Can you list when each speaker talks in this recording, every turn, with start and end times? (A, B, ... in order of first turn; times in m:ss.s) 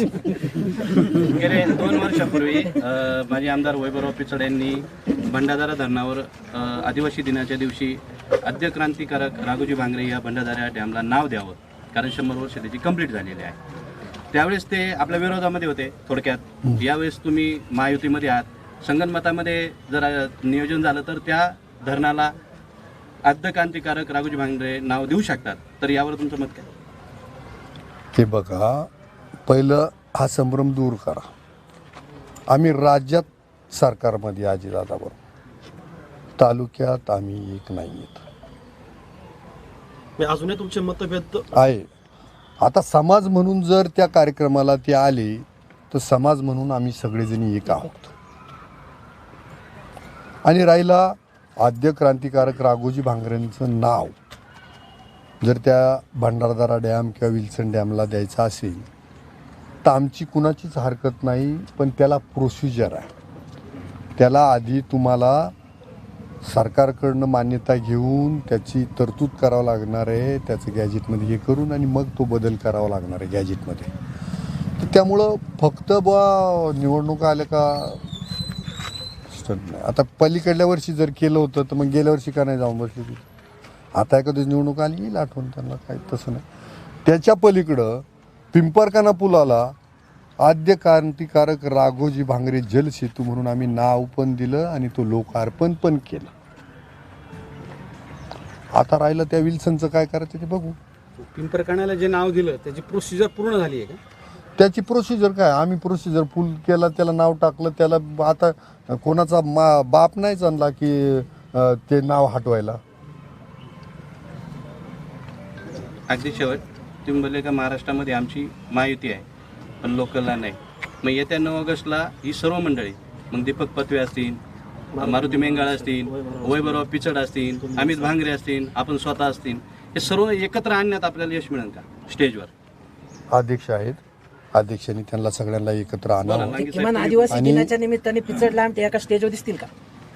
0:00.9-0:13.6 A
0:14.3-0:22.3 A
0:23.3-0:26.7 A
0:28.2-0:28.9 B
0:29.5-0:31.3 B
0:32.5-0:35.2 B
0:36.4-0:38.2 B
0:40.2-0:41.5 C
0:41.6-0:41.9 B
0:42.6-0:48.1 B
0:50.4-0:54.2 B
0:55.4-0:58.9 B
0:59.8-1:03.1 B
1:04.2-1:05.5 B
1:06.4-1:13.9 B
1:14.8-1:18.0 B
1:19.3-1:23.3 B
1:24.0-1:26.4 B
1:27.0-1:29.7 B
1:30.4-1:36.3 B
1:38.7-1:40.8 B
1:41.2-1:44.0 D
1:44.6-1:52.8 B
1:56.1-1:59.2 A
1:59.8-2:04.4 A
2:04.9-2:06.9 C
2:05.0-2:12.5 A
2:07.5-2:08.2 C
2:13.3-2:14.0 B
2:14.5-2:16.6 B
2:16.2-2:17.5 A
2:16.6-2:19.7 E
2:17.3-2:17.8 B